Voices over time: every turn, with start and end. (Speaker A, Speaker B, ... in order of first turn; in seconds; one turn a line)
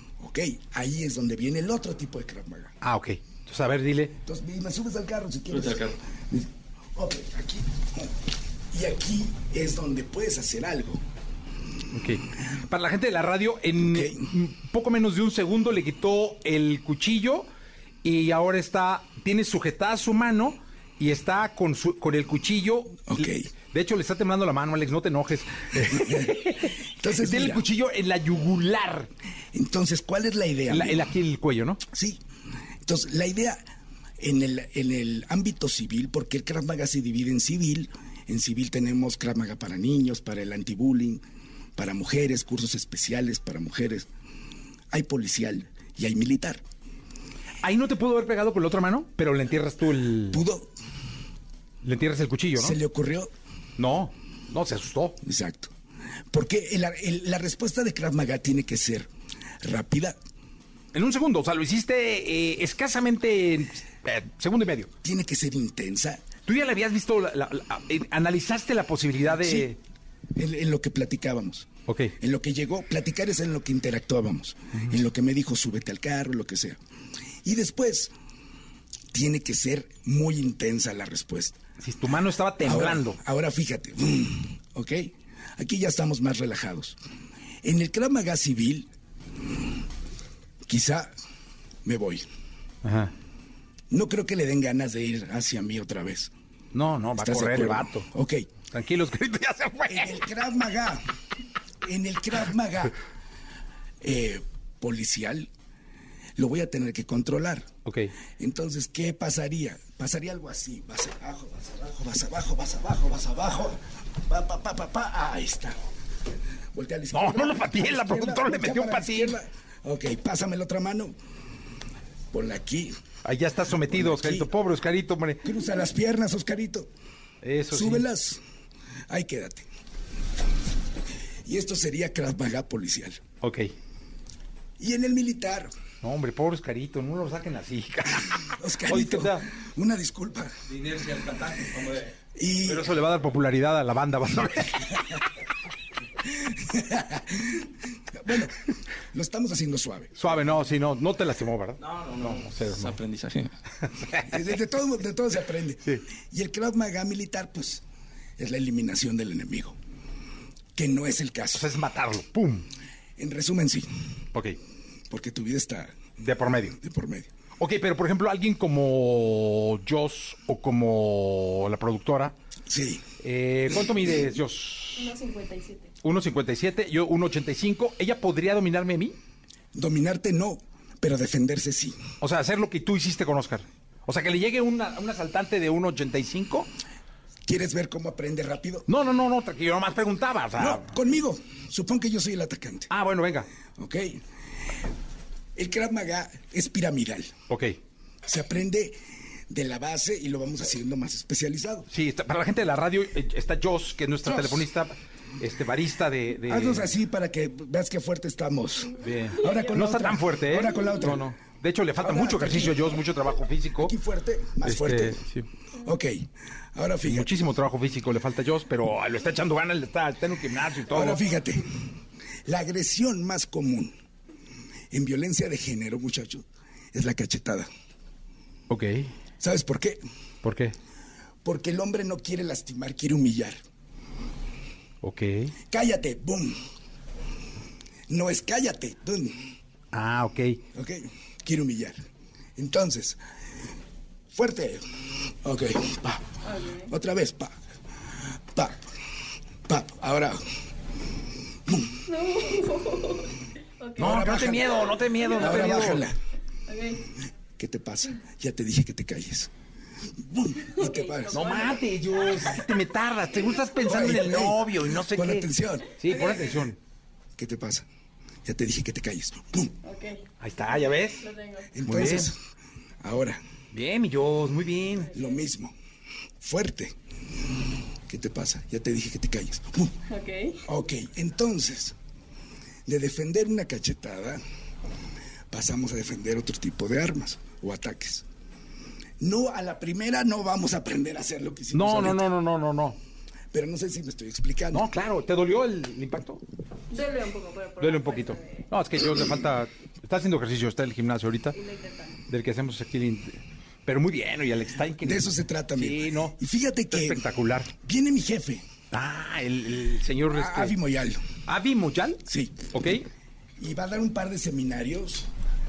Speaker A: 0.2-2.7
Speaker B: 2.8-4.1
Speaker A: 4.2-8.1
Speaker C: 5.5-5.9
Speaker A: 8.7-11.0
Speaker B: 11.9-17.5
Speaker A: 13.8-14.3
Speaker B: 18.0-29.1
Speaker A: 23.1-23.5
Speaker A: 25.9-26.5
Speaker A: 27.0-27.6
Speaker A: 29.5-31.1
Speaker B: 30.7-31.8
Speaker A: 31.9-32.2
Speaker A: 32.8-33.6
Speaker A: 34.2-41.2
Speaker A: 41.8-44.1
Speaker A: 44.9-46.6
Speaker B: 47.6-50.4
Speaker A: 50.3-50.7
Speaker B: 51.8-52.8
Speaker A: 52.6-53.3
Speaker B: 53.8-55.2
Speaker A: 55.2-55.7
Speaker A: 56.3-59.1
Speaker A: 59.6-60.1
Speaker B: 60.9-64.9
Speaker A: 65.0-66.3
Speaker B: 66.4-69.8
Speaker A: 69.4-69.7
Speaker A: 70.3-76.8
Speaker B: 71.9-72.1
Speaker A: 77.4-78.1
Speaker A: 79.1-81.6
Speaker B: 81.8-83.2
Speaker A: 82.6-87.0
Speaker A: 87.6-88.9
Speaker A: 90.7-91.1
Speaker A: 91.8-92.2
Speaker B: 92.8-93.1
Speaker A: 93.9-96.3
Speaker B: 96.7-98.1
Speaker A: 97.2-98.5
Speaker B: 98.7-100.2
Speaker A: 99.9-101.0
Speaker A: 101.8-102.9
Speaker A: 104.0-105.5
Speaker A: 106.4-107.7
Speaker B: 107.8-108.1
Speaker A: 108.4-115.8
Speaker A: 116.7-121.1
Speaker B: 117.1-119.4
Speaker A: 122.3-122.9
Speaker B: 123.2-125.4
Speaker A: 123.8-124.5
Speaker A: 125.4-126.9
Speaker B: 127.4-128.1
Speaker A: 127.7-128.4
Speaker A: 129.1-129.7
Speaker A: 131.4-133.2
Speaker B: 133.4-133.7
Speaker A: 134.8-135.7
Speaker B: 136.0-139.5
Speaker A: 138.6-140.6
Speaker C: 140.7-142.1
Speaker A: 142.3-142.9
Speaker B: 142.6-144.9
Speaker A: 146.7-147.6
Speaker A: 148.2-148.5
Speaker A: 149.1-150.1
Speaker B: 150.2-153.0
Speaker C: 151.8-153.5
Speaker B: 153.8-154.4
Speaker A: 154.3-157.8
Speaker A: 158.4-159.8
Speaker A: 160.7-161.7
Speaker B: 161.5-162.7
Speaker A: 163.2-163.9
Speaker A: 165.1-166.2
Speaker B: 166.2-166.8
Speaker A: 166.8-167.3
Speaker B: 167.6-172.3
Speaker A: 172.7-173.0
Speaker B: 173.2-175.1
Speaker D: 174.9-175.9
Speaker B: 176.0-179.2
Speaker A: 179.7-182.1
Speaker B: 182.2-186.7
Speaker A: 187.4-188.9
Speaker B: 188.9-190.9
Speaker A: 190.5-192.9
Speaker B: 192.9-193.5
Speaker A: 193.8-194.2
Speaker A: 195.6-197.3
Speaker B: 197.5-197.8
Speaker A: 198.2-199.0
Speaker A: 199.5-201.9
Speaker B: 201.9-206.9
Speaker A: 204.2-204.7
Speaker A: 206.4-211.3
Speaker B: 209.0-213.9
Speaker D: 209.4-209.7
Speaker A: 212.0-213.0
Speaker A: 213.8-215.2
Speaker B: 214.6-215.4
Speaker A: 215.8-217.4
Speaker B: 217.0-221.2
Speaker A: 220.9-221.6
Speaker A: 222.5-223.9
Speaker A: 224.9-227.7
Speaker B: 228.7-229.1
Speaker A: 229.4-230.0
Speaker B: 230.4-230.7
Speaker A: 231.4-233.6
Speaker B: 235.0-235.5
Speaker A: 235.7-236.6
Speaker A: 238.1-239.5
Speaker B: 239.9-240.6
Speaker A: 240.7-242.0
Speaker A: 242.6-243.2
Speaker A: 244.3-244.8
Speaker A: 245.4-246.3
Speaker D: 246.4-246.9
Speaker A: 246.9-247.5
Speaker A: 248.5-248.8
Speaker A: 249.7-250.4
Speaker A: 251.7-251.9
Speaker D: 252.1-254.2
Speaker B: 254.0-256.1
Speaker A: 254.0-256.2
Speaker D: 255.1-255.6
Speaker D: 256.7-257.0
Speaker A: 257.6-259.5
Speaker A: 260.2-261.7
Speaker D: 260.7-262.6
Speaker B: 261.3-266.8
Speaker D: 263.4-263.7
Speaker A: 263.8-266.4
Speaker D: 266.1-266.7
Speaker A: 267.4-267.8
Speaker A: 268.4-269.8
Speaker D: 269.8-270.2
Speaker B: 270.4-271.2
Speaker D: 271.2-271.7
Speaker A: 271.7-272.4
Speaker B: 271.8-272.3
Speaker A: 273.0-273.4
Speaker B: 273.7-275.1
Speaker D: 275.1-275.4
Speaker A: 275.1-275.7
Speaker A: 276.4-276.9
Speaker A: 278.1-279.9
Speaker D: 280.1-280.6
Speaker A: 280.6-281.9
Speaker A: 282.9-284.4
Speaker A: 285.5-288.2
Speaker A: 289.2-292.3
Speaker B: 291.7-293.0
Speaker A: 293.5-294.9
Speaker B: 294.7-296.4
Speaker D: 296.9-298.7
Speaker B: 297.8-301.6
Speaker D: 301.5-302.2
Speaker B: 302.3-306.4
Speaker A: 305.0-307.2
Speaker B: 306.9-307.7
Speaker A: 307.8-308.6
Speaker B: 308.9-310.8
Speaker A: 310.3-311.2
Speaker B: 311.5-313.0
Speaker A: 312.2-312.7
Speaker A: 313.6-315.3